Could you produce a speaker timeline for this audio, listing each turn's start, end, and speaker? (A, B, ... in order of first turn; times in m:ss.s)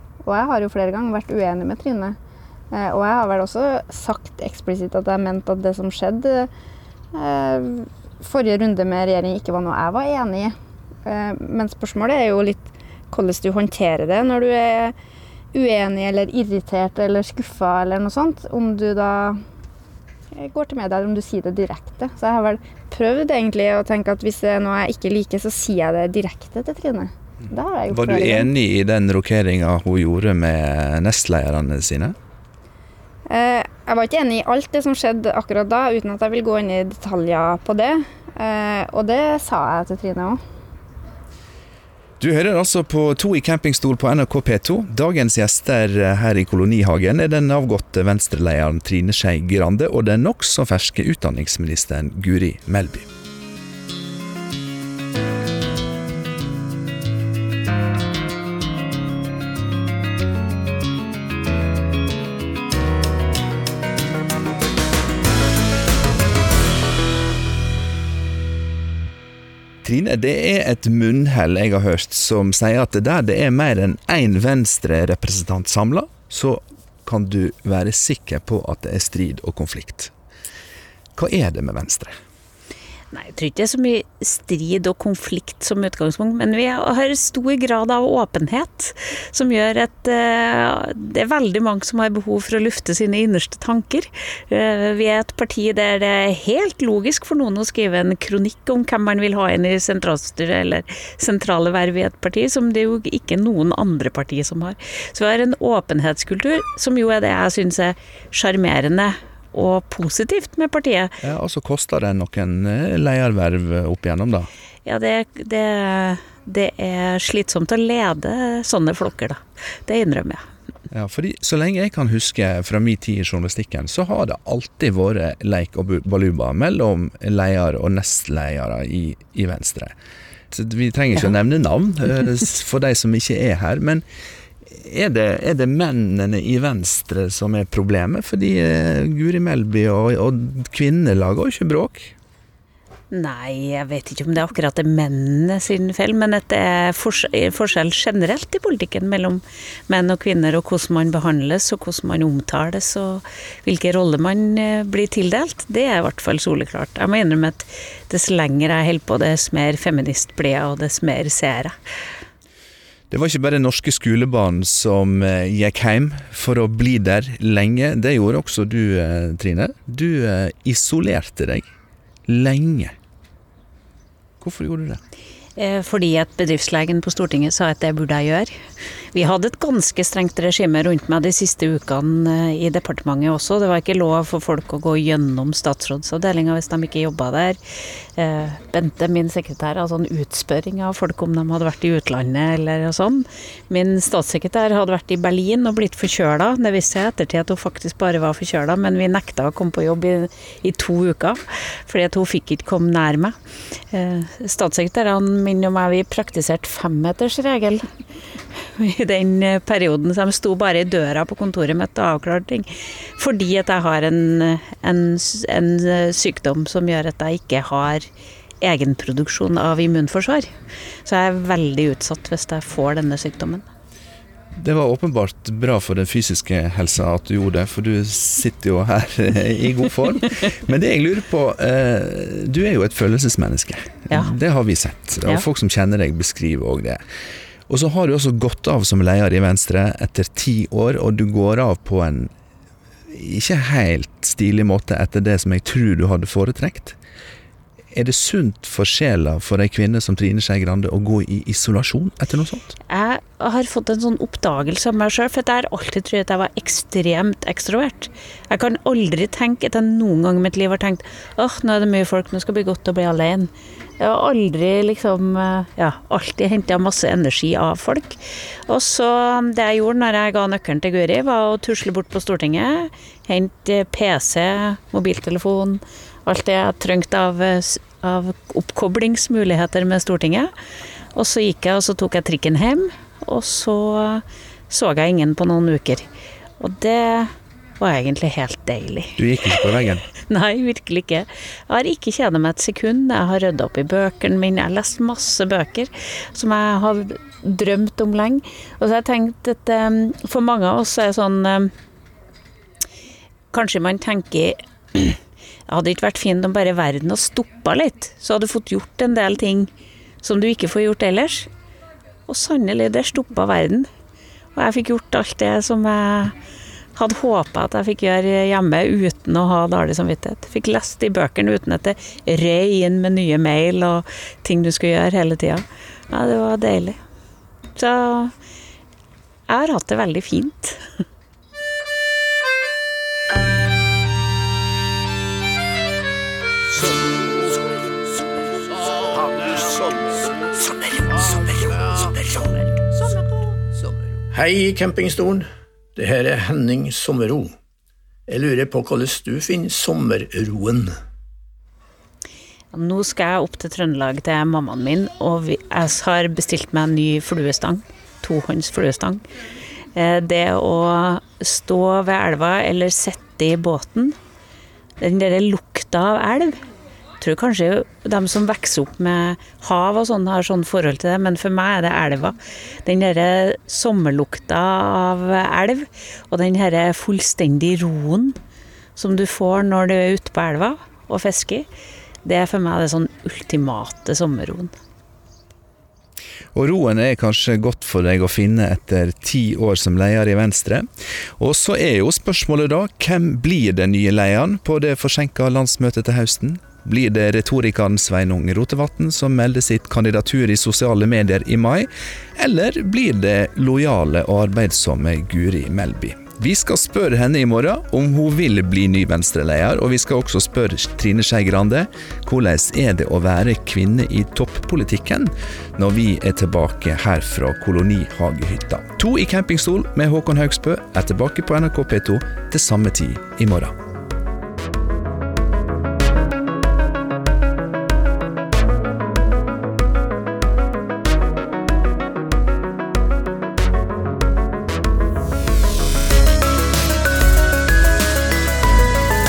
0:00.2-0:02.2 A
0:02.7-0:06.5 A
0:07.1-0:14.9 A
0:15.5-0:19.4 A
0:20.3-0:28.5 A
0:27.9-0:32.1 B
0:33.3-0:40.4 A
0:42.2-0:53.1 B
1:09.8-1:20.1 B
1:21.2-1:22.1 B
1:23.1-1:51.2 C
1:51.2-1:54.5 B
1:54.8-2:00.4 C
2:00.9-2:09.9 B
2:10.5-2:14.0 B
2:14.6-2:22.1 B
2:23.1-2:41.7 C
2:43.1-2:51.7 B
2:52.3-2:52.9 B
2:54.4-2:55.0 B
2:55.6-2:58.5 C
2:59.1-3:27.9 C
3:28.5-3:38.1 C
3:38.6-3:40.5 C
3:41.0-3:43.6 C
3:44.6-3:57.0 B
3:57.7-4:02.3 B
4:03.1-4:07.0 B
4:07.9-4:12.8 B
4:12.9-4:40.5 C
4:41.1-4:46.1 C
4:46.6-4:49.2 C
4:49.2-4:50.0 B
4:50.2-5:01.7 C
5:03.5-5:09.7 C
5:10.2-5:11.5 C
5:12.3-5:13.9 C
5:14.5-5:16.3 C
5:16.9-5:27.0 C
5:27.7-5:28.3 C
5:29.5-5:30.9 C
5:36.7-5:47.6 D
5:48.3-5:50.9 D
5:52.7-5:59.2 C
5:59.9-6:04.2 C
6:05.0-6:06.6 C
6:07.2-6:18.4 C
6:19.0-6:21.6 C
6:22.2-6:24.7 C
6:26.5-6:30.9 B
6:31.4-7:03.7 B